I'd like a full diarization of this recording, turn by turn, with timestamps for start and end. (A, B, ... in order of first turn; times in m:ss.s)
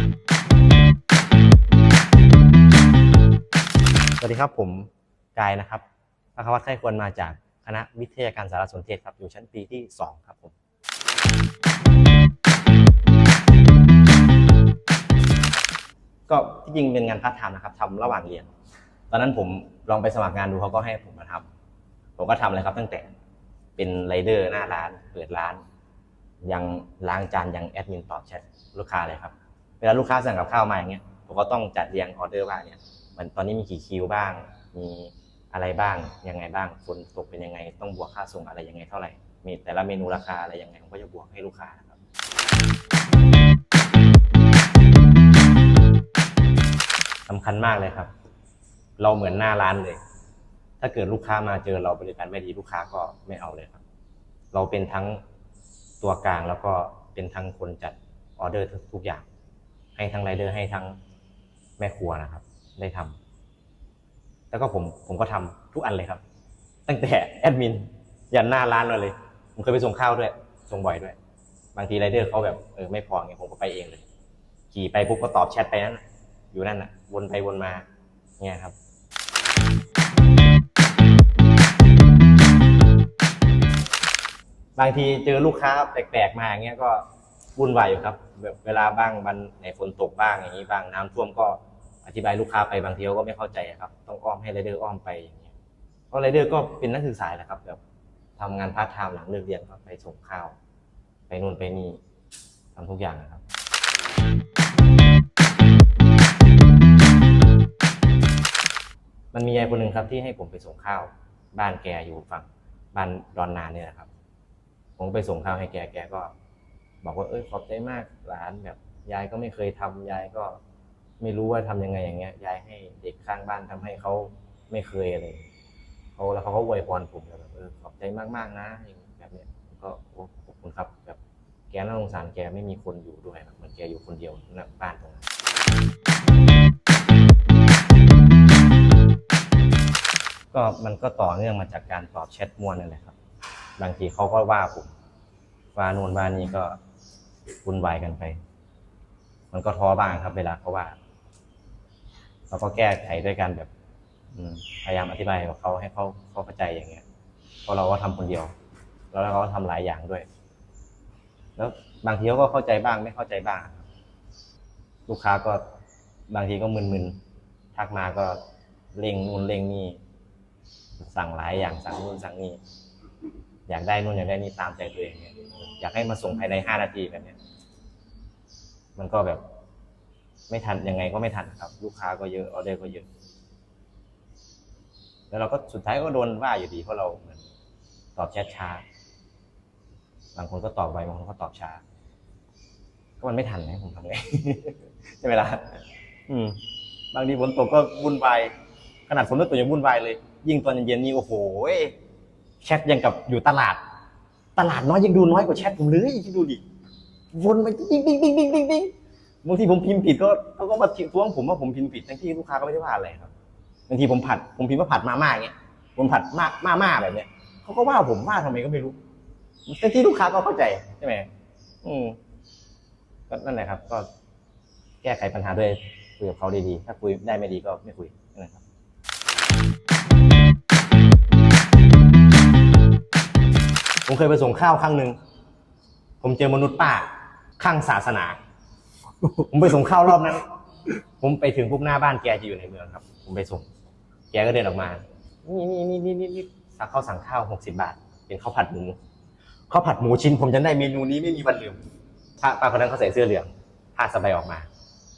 0:04.2-0:05.8 A
0:06.4-0:10.6 A
0:16.3-0:18.5 A
0:19.1-0:21.5 A
0:22.2-0:23.1 A
0:23.8-0:25.6 A
0:26.4-0:42.0 A
0:47.3-0:48.1 A
0:49.0-0:50.0 A
0:50.8-0:53.8 A
0:54.5-0:55.2 A
0:56.0-0:59.3 A
1:00.0-1:01.0 A
1:01.8-1:03.2 A
1:04.5-1:06.2 A
1:06.9-1:11.2 A
1:11.8-1:14.0 A
1:14.7-1:17.8 A
1:18.4-1:18.8 A
1:24.8-1:27.0 A
1:27.6-1:35.5 A
1:36.1-1:37.8 A
1:38.4-1:40.6 A
1:41.3-1:42.0 A
1:42.8-1:43.4 A
1:49.3-1:54.1 A
1:55.0-1:56.3 A
1:57.0-2:00.6 A
2:01.2-2:05.5 A
2:06.2-2:11.2 A
2:11.7-2:15.2 A
2:20.5-2:23.2 A
2:23.8-2:24.9 A
2:25.8-2:26.8 A
2:27.6-2:28.4 A
2:29.5-2:31.0 A
2:32.5-2:33.7 A
2:34.3-2:37.0 A
2:37.7-2:38.5 A
2:39.1-2:40.3 A
2:41.6-2:43.9 A
2:45.1-2:45.6 A
2:46.3-2:47.2 A
2:47.7-2:48.4 A
2:49.0-2:50.0 A
2:51.0-2:52.6 A
2:53.7-2:57.4 A
2:59.0-2:59.4 A
3:00.5-3:03.1 A
3:05.3-3:07.4 A
3:08.2-3:08.8 A
3:10.4-3:11.8 A
3:13.2-3:16.6 A
3:17.1-3:18.5 A
3:19.1-3:22.0 A
3:22.6-3:23.8 A
3:24.6-3:26.6 A
3:27.3-3:28.9 A
3:29.4-3:33.3 A
3:33.9-3:39.0 A
3:39.7-3:41.3 A
3:41.8-3:42.2 A
3:43.3-3:44.1 A
3:45.0-3:48.6 A
3:54.1-3:55.2 A
3:56.2-3:57.1 A
3:57.6-3:58.4 A
3:59.3-4:00.5 A
4:01.2-4:03.7 A
4:04.3-4:09.0 A
4:09.7-4:11.8 A
4:12.4-4:14.7 A